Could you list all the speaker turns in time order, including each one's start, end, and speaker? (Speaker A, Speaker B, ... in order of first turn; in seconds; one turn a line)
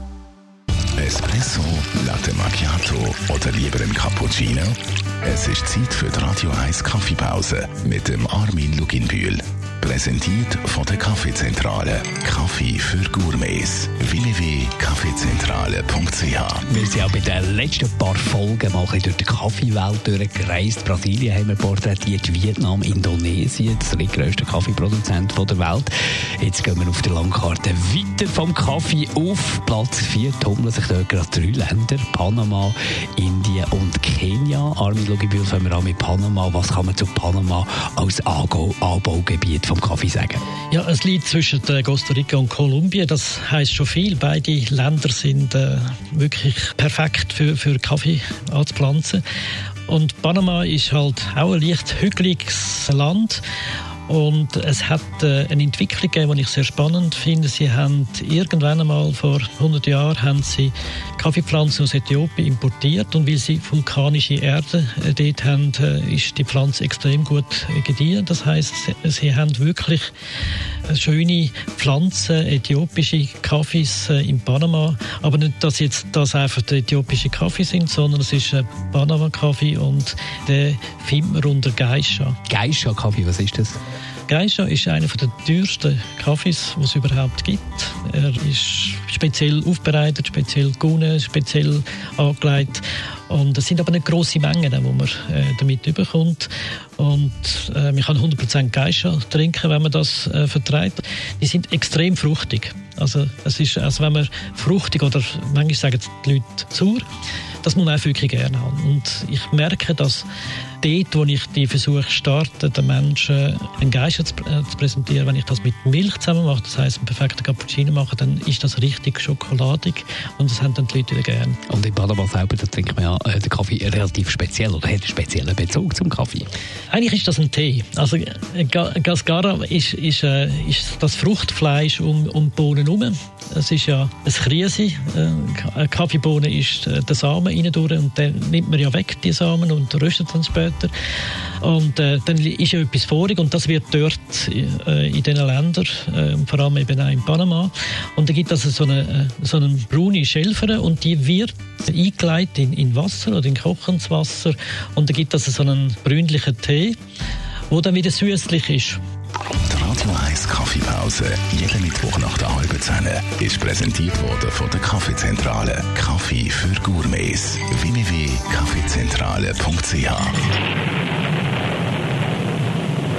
Speaker A: 1.0-16.7
Speaker B: 16.7-40.4
Speaker C: 40.7-49.2
Speaker C: 49.9-53.4
Speaker C: 54.1-70.1
Speaker C: 70.9-82.4
Speaker B: 82.5-83.8
Speaker C: 84.3-107.1
Speaker C: 107.6-110.3
Speaker C: 110.8-121.6
Speaker B: 121.7-126.5
Speaker C: 126.9-140.9
Speaker C: 141.6-157.0
Speaker C: 157.7-159.0
Speaker A: 159.7-170.4